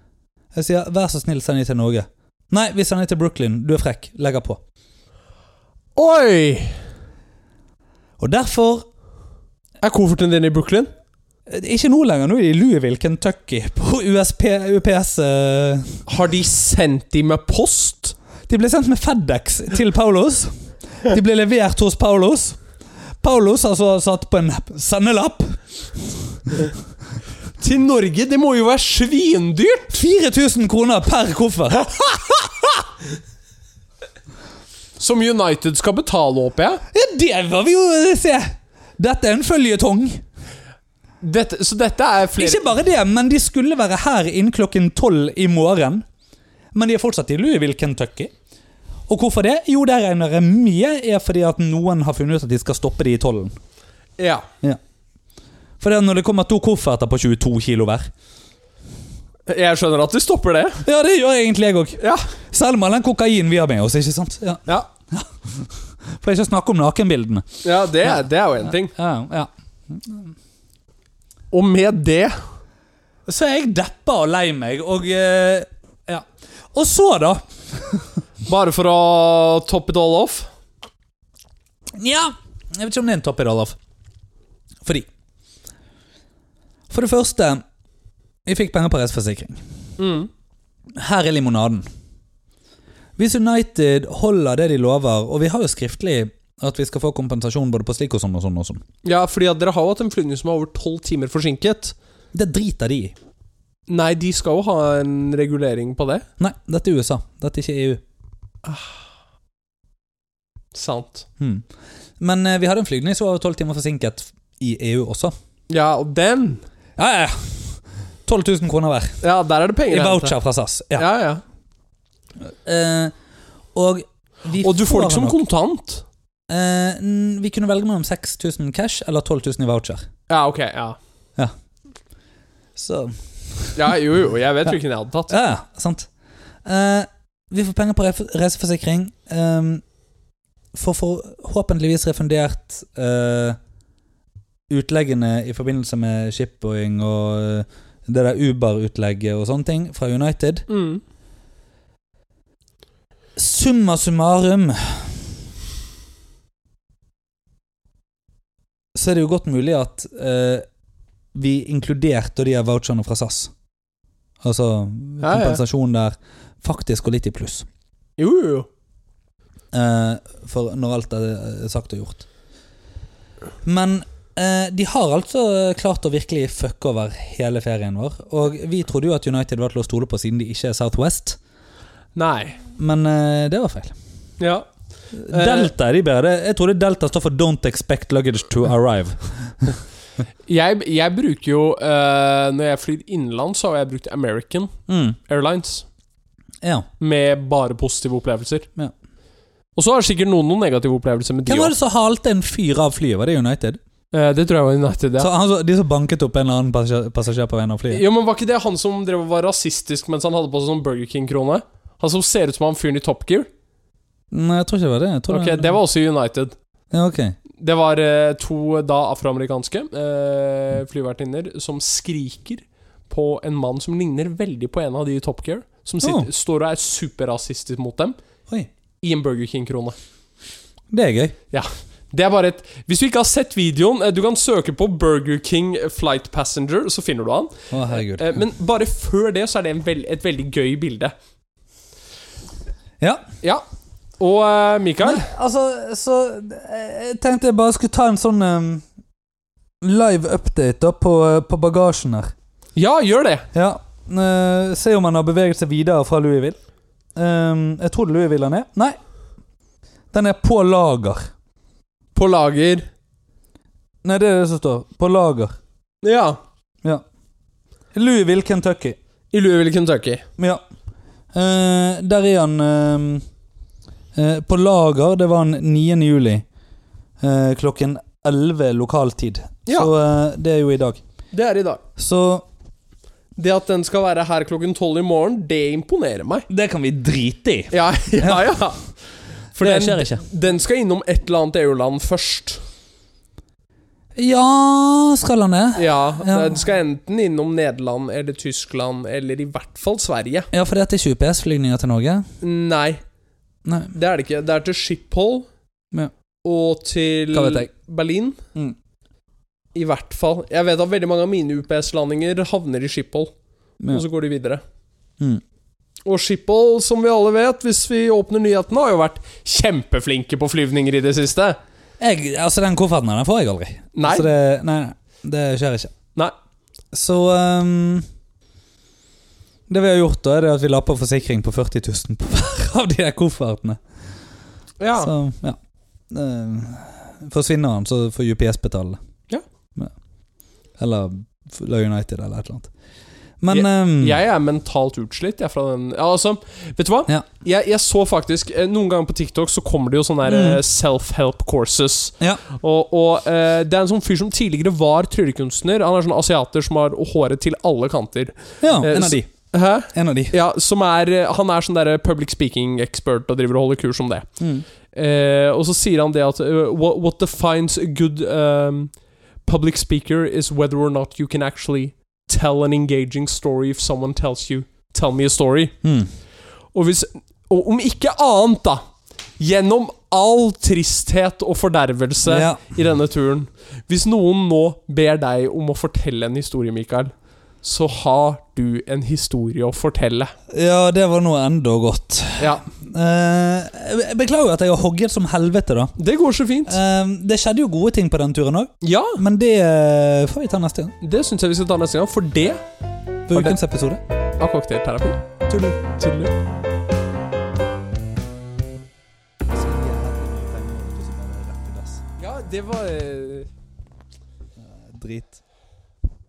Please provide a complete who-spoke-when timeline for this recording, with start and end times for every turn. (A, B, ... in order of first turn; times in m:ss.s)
0:00.5-0:04.6 A
0:06.0-0:06.8 B
0:08.2-0:08.9 A
0:09.8-0:10.9 B
0:11.5-0:16.0 A
0:16.1-0:18.2 B
0:18.5-0:22.6 A
0:23.2-0:25.6 A
0:27.6-0:30.0 B
0:29.9-0:32.7 A
0:35.0-0:36.8 B
0:36.9-0:40.2 A
0:41.2-0:42.7 B
0:42.4-0:46.0 A
0:46.7-0:48.3 A
0:49.1-0:53.6 A
0:54.2-0:54.5 B
0:55.8-0:58.1 A
0:59.5-1:00.8 B
1:00.8-1:07.5 A
1:02.0-1:02.3 B
1:07.6-1:08.9 B
1:08.0-1:10.3 A
1:11.5-1:12.4 B
1:13.3-1:18.2 A
1:18.4-1:20.5 B
1:22.0-1:23.8 A
1:24.8-1:25.1 A
1:26.9-1:27.6 A
1:28.5-1:29.6 A
1:30.0-1:30.3 B
1:31.0-1:31.9 A
1:33.2-1:38.8 A
1:39.0-1:42.0 B
1:42.3-1:43.2 A
1:43.9-1:46.3 B
1:46.4-1:48.0 A
1:48.6-1:49.0 B
1:50.7-1:51.3 B
1:51.4-1:51.7 A
1:52.2-1:55.3 A
1:55.7-1:56.6 B
1:57.0-1:59.2 A
1:59.2-2:00.4 B
1:59.9-2:01.1 A
2:01.0-2:01.4 B
2:02.4-2:03.1 A
2:03.8-2:05.4 A
2:04.6-2:06.0 B
2:06.5-2:10.0 A
2:10.3-2:11.0 B
2:12.8-2:13.8 A
2:13.8-2:15.4 B
2:15.3-2:16.1 A
2:16.6-2:19.8 A
2:20.7-2:23.6 A
2:24.7-2:30.7 A
2:30.7-2:31.0 B
2:33.4-2:35.3 A
2:39.0-2:40.6 A
2:41.3-2:43.5 A
2:44.4-2:47.7 A
2:45.2-2:45.6 B
2:48.2-2:48.7 B
2:49.7-2:52.3 A
2:53.6-3:01.4 A
3:02.2-3:02.6 B
3:02.8-3:04.0 A
3:04.4-3:04.7 B
3:05.2-3:09.8 A
3:05.3-3:05.7 B
3:10.5-3:15.9 B
3:14.9-3:15.2 A
3:16.6-3:16.9 A
3:17.0-3:18.7 B
3:19.8-3:21.7 B
3:21.5-3:23.8 A
3:24.1-3:25.3 B
3:25.2-3:28.0 A
3:27.9-3:33.5 B
3:34.3-3:35.8 A
3:35.3-3:36.5 B
3:36.9-3:37.4 A
3:37.6-3:48.2 B
3:46.0-3:46.3 A
3:49.0-3:50.0 B
3:50.9-3:51.4 A
3:51.5-4:01.1 B
3:57.7-3:58.4 A
4:03.0-4:03.2 A
4:04.2-4:05.3 B
4:05.0-4:08.8 A
4:09.8-4:12.3 A
4:12.8-4:13.5 B
4:13.5-4:16.6 A
4:17.2-4:19.0 A
4:20.1-4:21.3 A
4:22.2-4:22.8 B
4:24.0-4:25.5 A
4:26.0-4:26.4 B
4:27.9-4:29.0 A
4:29.3-4:30.2 B
4:31.3-4:33.2 A
4:34.2-4:36.4 A
4:37.2-4:41.0 A
4:39.7-4:39.9 B
4:41.3-4:41.8 B
4:42.0-4:42.5 A
4:43.4-4:46.5 B
4:46.5-4:48.6 A
4:47.7-4:48.9 B
4:49.6-4:52.6 B
4:49.6-4:50.2 A
4:54.2-4:56.6 A
4:55.8-5:00.5 B
5:00.5-5:02.3 A
5:02.4-5:03.0 B
5:03.6-5:04.0 A
5:04.0-5:05.5 B
5:06.4-5:08.4 B
5:07.3-5:07.7 A
5:09.8-5:13.3 B
5:13.9-5:14.6 B
5:16.1-5:21.6 B
5:22.0-5:25.9 A
5:24.0-5:24.3 B
5:26.9-5:28.1 A
5:29.7-5:33.8 A
5:34.8-5:35.1 B
5:35.0-5:35.6 A
5:36.1-5:39.0 A
5:40.8-5:42.7 A
5:43.4-5:44.2 A
5:43.5-6:04.3 B
5:50.3-5:50.6 A
5:58.6-5:59.3 A
5:59.9-6:00.4 A
6:04.4-6:04.6 A
6:04.9-6:15.8 B
6:15.8-6:16.1 A
6:16.7-6:18.8 B
6:19.4-6:30.3 B
6:22.3-6:22.6 A
6:30.5-6:36.0 A
6:32.4-6:32.7 B
6:36.0-6:36.8 B
6:36.7-6:41.0 A
6:38.8-6:39.2 B
6:41.0-6:42.6 B
6:43.3-6:44.0 A
6:44.4-6:46.3 B
6:49.5-6:52.0 A
6:52.2-6:53.5 B
6:54.6-6:55.4 A